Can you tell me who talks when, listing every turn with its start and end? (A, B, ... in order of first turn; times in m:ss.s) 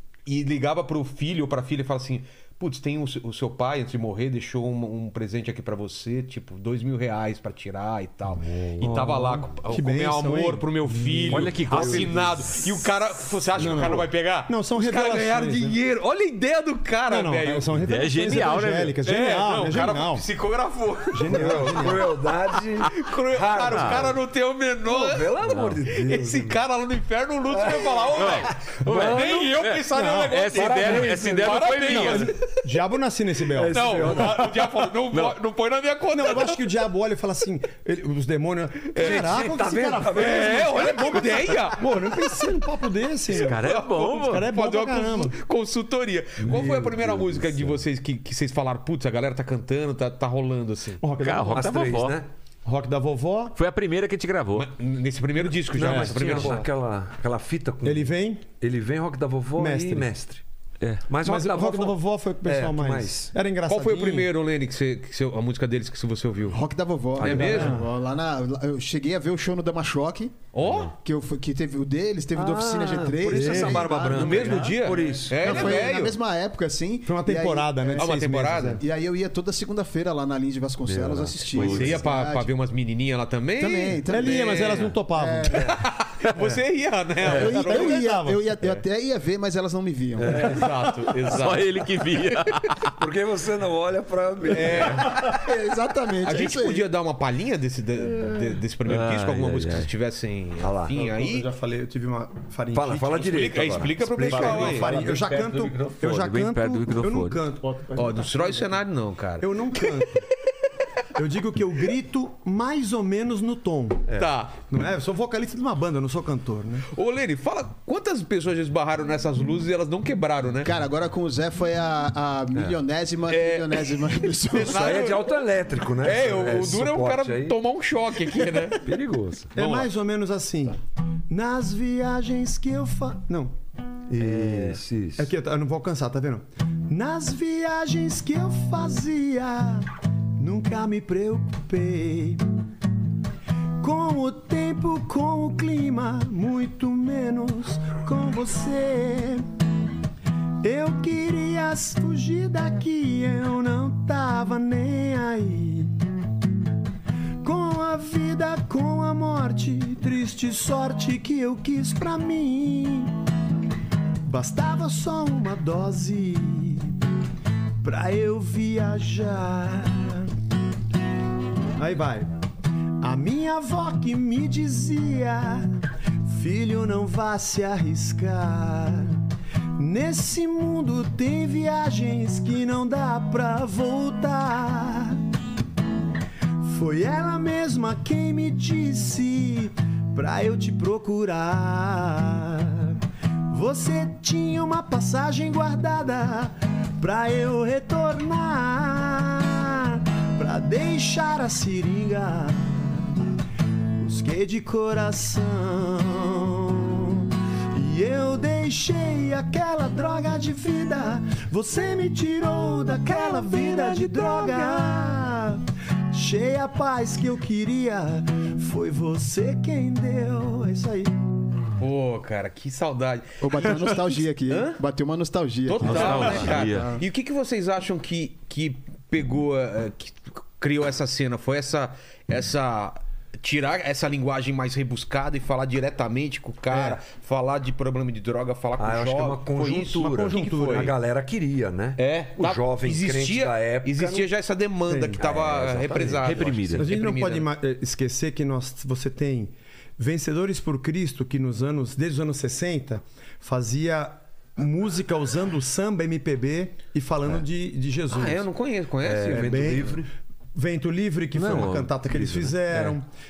0:00.2-0:17.7 A
0:08.4-0:09.0 B
0:08.8-0:11.5 C
0:11.3-0:12.3 D
0:11.3-0:12.6 B
0:13.6-0:15.8 C
0:13.6-0:13.9 B
0:17.1-0:20.2 C
0:17.8-0:19.0 D
0:19.0-0:22.0 A
0:21.1-0:22.1 C
0:21.3-0:24.2 B
0:22.9-0:32.6 A
0:23.7-0:24.1 D
0:24.8-0:26.6 B
0:25.4-0:25.8 D
0:27.5-0:29.5 B
0:28.1-0:32.3 D
0:29.9-0:30.4 C
0:30.5-0:31.8 B
0:31.8-0:34.2 C
0:33.5-0:34.9 B
0:33.7-0:36.6 A
0:35.1-0:35.4 D
0:36.1-0:40.8 C
0:39.0-0:41.6 B
0:39.0-0:39.3 A
0:40.0-0:41.8 A
0:41.7-0:45.4 C
0:43.3-0:44.5 D
0:43.4-0:51.0 A
0:46.4-0:47.8 B
0:46.5-0:46.7 C
0:51.0-0:51.8 C
0:51.2-0:52.2 D
0:51.5-0:52.3 B
0:52.6-0:53.6 C
0:53.6-0:54.7 D
0:54.6-0:56.7 A
0:55.7-1:00.4 B
0:55.7-0:56.5 C
0:57.8-0:58.4 C
0:59.6-1:00.1 C
1:00.8-1:01.1 D
1:01.1-1:03.3 B
1:01.2-1:04.3 C
1:03.7-1:06.6 A
1:06.5-1:10.3 E
1:07.2-1:07.7 B
1:07.2-1:07.8 A
1:07.4-1:07.9 C
1:10.5-1:10.9 A
1:10.6-1:10.9 B
1:11.0-1:18.0 E
1:12.3-1:15.8 B
1:13.2-1:13.9 C
1:14.0-1:16.2 A
1:15.4-1:15.8 C
1:17.0-1:18.8 C
1:17.9-1:18.8 A
1:18.7-1:22.5 E
1:20.8-1:22.0 B
1:21.5-1:25.0 A
1:21.6-1:22.0 D
1:23.6-1:24.6 E
1:24.1-1:25.8 C
1:25.1-1:25.7 E
1:25.5-1:28.1 A
1:27.2-1:30.5 E
1:27.3-1:28.5 C
1:30.2-1:30.6 B
1:30.2-1:31.7 A
1:30.5-1:31.3 C
1:31.3-1:32.7 D
1:32.9-1:35.2 B
1:34.5-1:35.3 A
1:35.1-1:36.9 E
1:36.2-1:41.5 A
1:38.8-1:39.9 D
1:40.6-1:40.9 B
1:40.9-1:43.6 C
1:42.7-1:44.9 B
1:43.2-1:45.2 A
1:44.2-1:48.7 C
1:44.3-1:47.4 D
1:48.0-1:50.1 A
1:49.4-1:50.2 C
1:51.1-1:54.1 C
1:54.1-1:54.6 A
1:54.6-1:56.9 C
1:56.9-2:00.7 A
2:00.6-2:04.8 E
2:03.3-2:08.8 A
2:04.6-2:07.6 B
2:08.8-2:09.5 B
2:09.5-2:10.8 C
2:09.6-2:09.9 A
2:11.3-2:13.5 C
2:14.1-2:15.3 B
2:15.2-2:22.4 C
2:23.8-2:29.4 C
2:30.6-2:35.9 C
2:37.4-2:43.1 C
2:44.2-2:47.0 C
2:47.8-2:50.3 C
2:51.8-2:52.3 C
2:53.0-2:55.7 C
2:56.2-2:59.2 C
2:59.8-3:05.2 C
3:06.6-3:23.3 C
3:24.0-3:41.1 C
3:33.8-3:34.1 B
3:41.8-3:44.8 A
3:43.4-3:46.9 E
3:45.6-4:00.9 A
3:45.8-3:47.0 D
3:56.7-3:57.0 C
3:58.8-4:04.3 B
4:00.0-4:00.9 C
4:02.0-4:07.5 A
4:04.9-4:05.2 C
4:05.2-4:06.4 B
4:06.2-4:06.9 D
4:06.7-4:18.4 C
4:18.1-4:19.9 A
4:19.0-4:20.1 B
4:19.2-4:20.0 C
4:20.5-4:23.1 C
4:21.3-4:23.0 D